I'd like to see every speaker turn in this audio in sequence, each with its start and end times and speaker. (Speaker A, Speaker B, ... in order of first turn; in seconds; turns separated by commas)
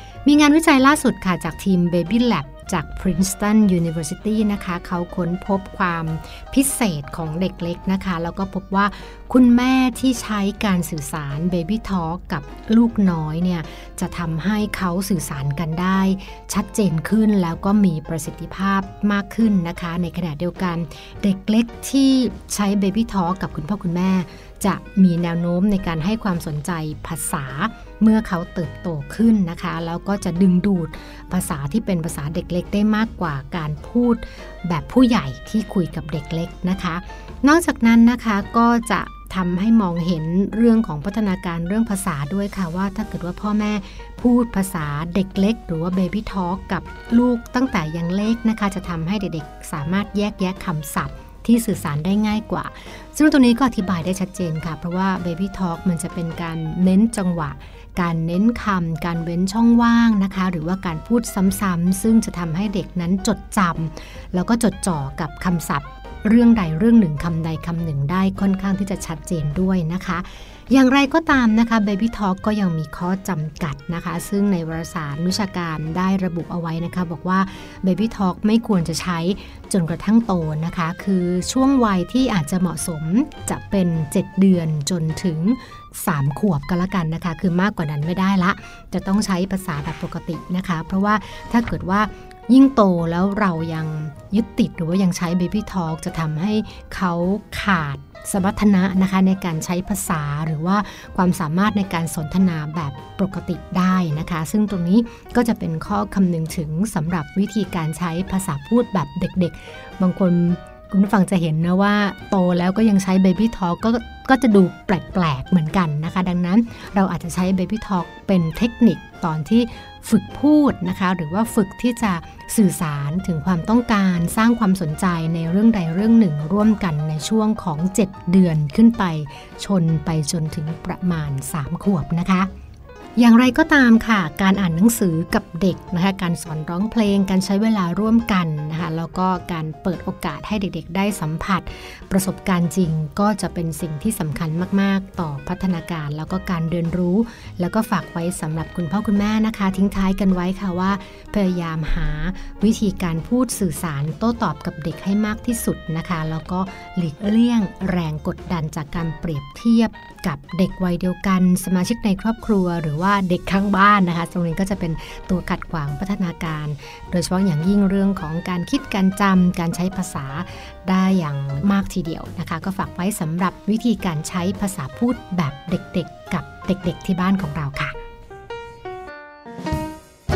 Speaker A: 0.2-132.5, Speaker A: 133.2-177.9